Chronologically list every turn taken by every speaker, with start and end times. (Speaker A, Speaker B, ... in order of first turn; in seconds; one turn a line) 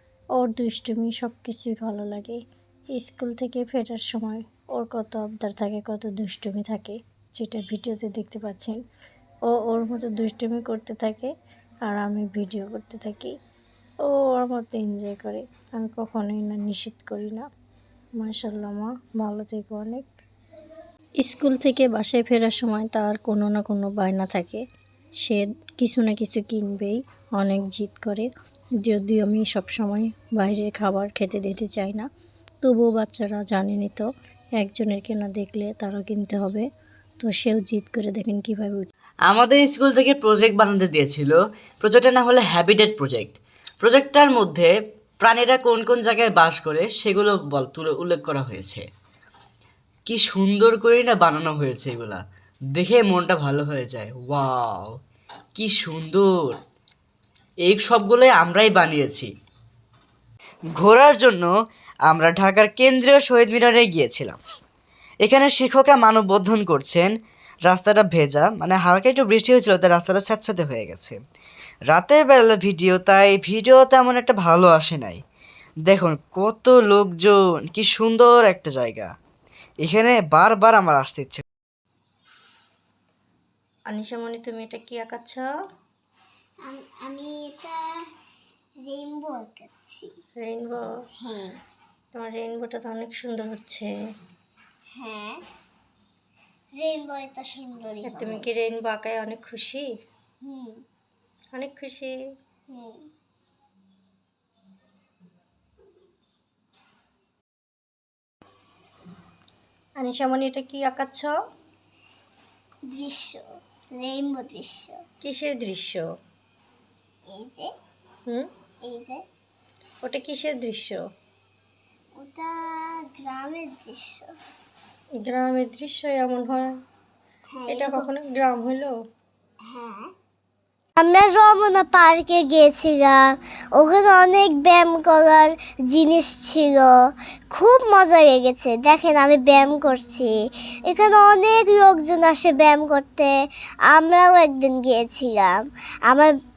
Speaker A: 0.3-2.4
Speaker A: 2.9-8.8
Speaker A: 9.5-11.3
Speaker A: 11.8-13.3
Speaker A: 14.0-17.4
Speaker A: 18.2-20.0
Speaker A: 21.2-24.6
Speaker A: 25.2-28.3
Speaker A: 28.8-32.0
Speaker A: 32.6-34.0
Speaker A: 34.6-36.6
Speaker A: 37.2-38.9
Speaker B: 39.3-48.8
Speaker B: 50.0-52.2
Speaker B: 52.7-54.9
Speaker B: 55.5-56.6
Speaker B: 57.6-59.3
Speaker B: 60.8-61.5
Speaker B: 62.1-64.4
Speaker B: 65.2-67.1
Speaker B: 67.7-71.2
Speaker B: 71.9-75.2
Speaker B: 75.9-79.1
Speaker B: 79.8-81.4
Speaker A: 83.9-85.4
Speaker C: 86.6-87.8
Speaker C: 88.8-90.1
Speaker A: 90.4-90.9
Speaker C: 91.2-91.6
Speaker A: 92.1-93.9
Speaker C: 94.9-95.4
Speaker C: 96.8-98.5
Speaker A: 98.0-99.8
Speaker C: 100.4-100.8
Speaker A: 101.5-102.1
Speaker C: 102.7-103.0
Speaker A: 110.0-111.3
Speaker C: 112.9-115.0
Speaker A: 115.2-116.1
Speaker C: 117.3-117.7
Speaker C: 118.8-119.2
Speaker A: 120.0-121.0
Speaker C: 122.2-124.3
Speaker A: 125.2-126.7
Speaker C: 127.5-128.1
Speaker A: 127.7-128.9
Speaker C: 129.7-130.1
Speaker C: 131.0-136.9
Speaker C: 137.5-140.3
Speaker C: 140.9-143.3
Speaker C: 143.9-146.3